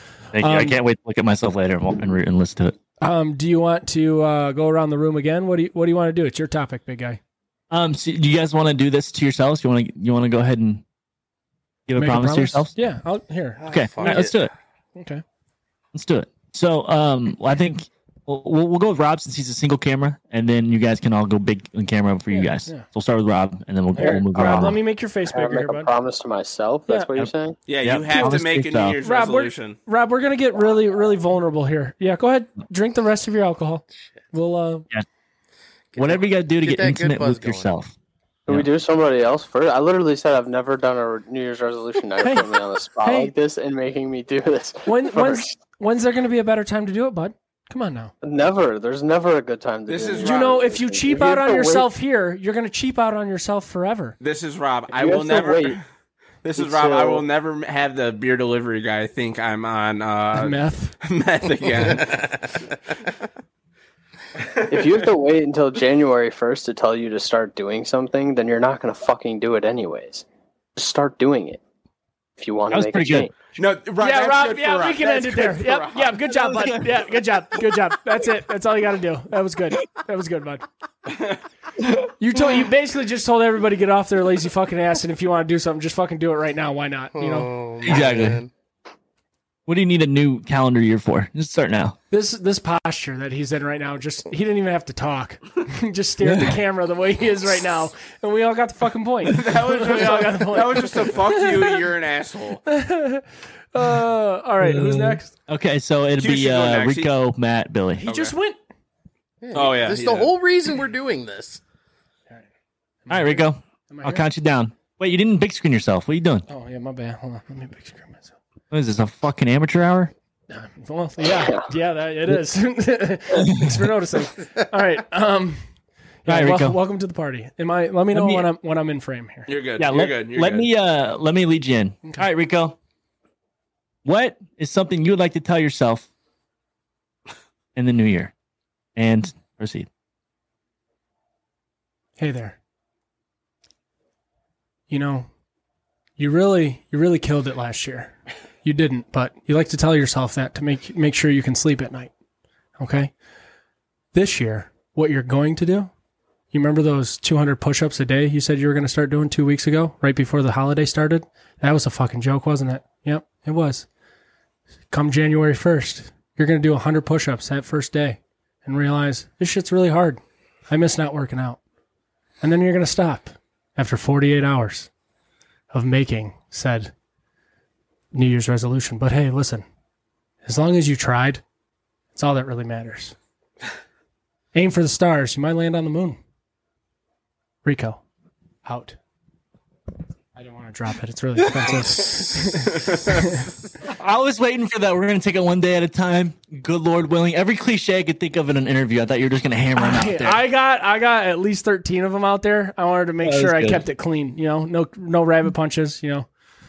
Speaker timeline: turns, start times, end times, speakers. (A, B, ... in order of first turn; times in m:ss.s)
0:00.3-0:02.8 A
0:00.4-0:00.8 B
0:03.0-0:07.2 B
0:07.7-0:10.8 A
0:11.9-0:12.7 A
0:12.0-0:14.2 B
0:13.6-0:14.4 C
0:13.7-0:14.5 A
0:15.0-0:15.2 B
0:15.9-0:24.8 A
0:22.3-0:22.8 B
0:23.9-0:25.9 B
0:25.3-0:27.6 D
0:26.9-0:27.1 B
0:27.7-0:29.8 E
0:27.8-0:29.0 A
0:28.1-0:28.4 B
0:29.0-0:34.9 B
0:34.0-0:34.2 C
0:35.9-0:37.8 C
0:36.0-0:37.9 A
0:38.5-0:45.5 D
0:42.2-0:43.3 B
0:44.9-0:48.1 B
0:48.2-0:51.9 D
0:49.9-0:50.6 E
0:50.2-0:54.2 B
0:54.2-0:55.8 E
0:54.9-0:55.8 D
0:56.4-1:02.4 E
0:56.6-0:57.2 D
1:00.4-1:01.0 B
1:02.0-1:02.4 C
1:04.5-1:05.0 E
1:04.7-1:10.2 D
1:10.8-1:11.6 D
1:12.4-1:13.3 D
1:12.7-1:13.3 A
1:13.6-1:16.2 E
1:14.0-1:20.7 B
1:16.3-1:17.0 A
1:22.2-1:28.0 B
1:27.1-1:28.5 C
1:27.8-1:28.4 A
1:29.7-1:32.0 A
1:32.1-1:41.8 B
1:36.2-1:36.5 A
1:39.3-1:42.6 E
1:42.7-1:45.3 B
1:44.6-1:48.0 A
1:46.2-1:47.1 E
1:48.0-1:48.6 B
1:48.1-1:48.3 E
1:49.4-1:51.6 C
1:49.5-1:50.3 E
1:53.1-1:54.3 B
1:53.1-1:56.5 A
1:56.5-1:58.4 B
1:58.7-2:00.1 A
2:00.5-2:05.6 B
2:01.3-2:01.6 D
2:03.4-2:03.7 A
2:06.2-2:09.5 B
2:06.3-2:06.8 A
2:08.1-2:08.5 A
2:09.5-2:10.7 E
2:09.8-2:12.8 A
2:14.0-2:16.1 A
2:17.8-2:18.3 A
2:19.0-2:19.9 A
2:22.2-2:22.6 B
2:24.9-2:25.3 B
2:26.2-2:32.1 B
2:32.8-2:33.1 B
2:34.1-2:35.9 B
2:36.5-2:43.9 B
2:44.9-2:51.6 B
2:52.4-2:54.9 B
2:55.7-2:56.9 B
2:58.1-2:59.6 B
3:00.4-3:01.4 B
3:02.1-3:03.2 B
3:04.5-3:06.2 B
3:07.6-3:08.0 B
3:08.6-3:09.0 B
3:10.4-3:13.5 B
3:11.9-3:12.7 C
3:13.9-3:20.4 A
3:19.8-3:26.3 B
3:23.2-3:23.8 A